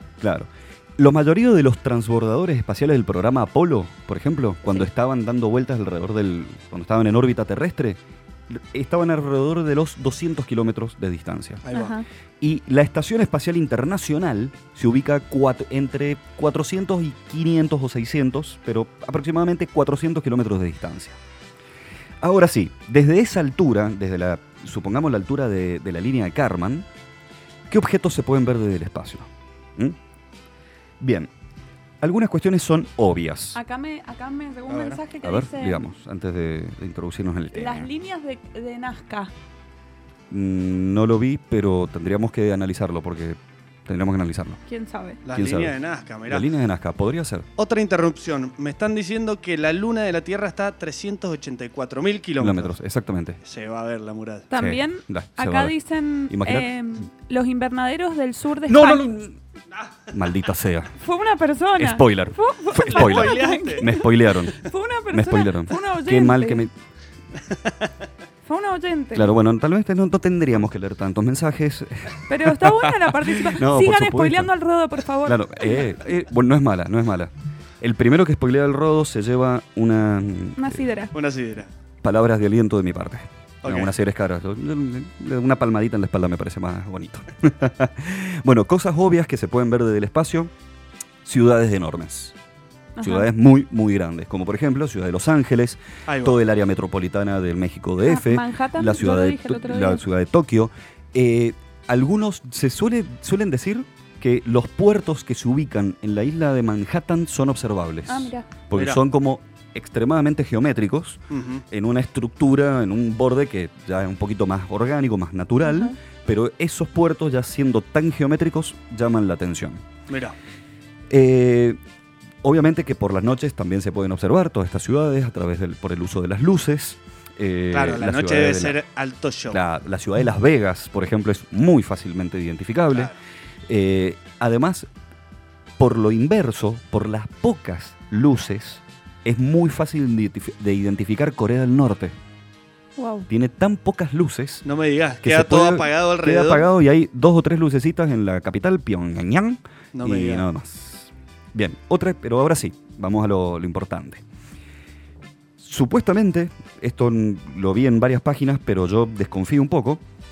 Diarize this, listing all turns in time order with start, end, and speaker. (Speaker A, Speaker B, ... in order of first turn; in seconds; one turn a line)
Speaker A: 0.2-11.6
Speaker B: 11.6-12.0
Speaker C: 11.7-12.0
Speaker A: 12.4-21.2
Speaker A: 22.2-26.9
Speaker A: 27.7-30.0
Speaker A: 31.0-31.3
Speaker A: 32.0-33.6
Speaker C: 33.5-35.8
Speaker B: 34.7-35.0
Speaker A: 35.2-37.9
Speaker C: 37.5-39.3
Speaker A: 40.3-44.6
Speaker C: 44.7-45.2
Speaker B: 45.2-46.5
Speaker A: 45.3-45.7
Speaker A: 46.3-47.5
Speaker B: 47.6-52.7
Speaker A: 52.4-53.4
Speaker B: 53.4-54.5
Speaker C: 54.5-59.1
Speaker A: 54.5-55.8
Speaker A: 56.3-56.7
Speaker A: 58.6-59.4
Speaker A: 60.1-60.9
Speaker C: 61.0-66.7
Speaker A: 61.8-66.7
Speaker B: 62.9-63.9
Speaker C: 68.5-69.3
Speaker A: 69.1-74.5
Speaker C: 72.3-75.9
Speaker A: 75.2-80.8
Speaker C: 80.6-81.1
Speaker B: 81.1-81.7
Speaker A: 82.0-90.5
Speaker B: 83.6-83.9
Speaker A: 91.2-92.3
Speaker C: 93.0-93.3
Speaker A: 93.0-119.8
Speaker B: 96.1-96.4
Speaker C: 98.0-100.0
Speaker C: 108.1-108.5
Speaker B: 108.7-109.0
Speaker B: 111.3-111.6
Speaker C: 115.6-115.9
Speaker B: 120.1-120.3
Speaker A: 121.1-121.8
Speaker A: 122.4-128.8
Speaker B: 127.7-129.6
Speaker A: 129.5-133.1
Speaker A: 133.7-134.9
Speaker A: 135.8-142.1
Speaker C: 143.0-143.3
Speaker A: 143.3-144.6
Speaker B: 144.6-146.7
Speaker A: 145.2-154.2
Speaker B: 149.9-150.5
Speaker A: 155.6-160.0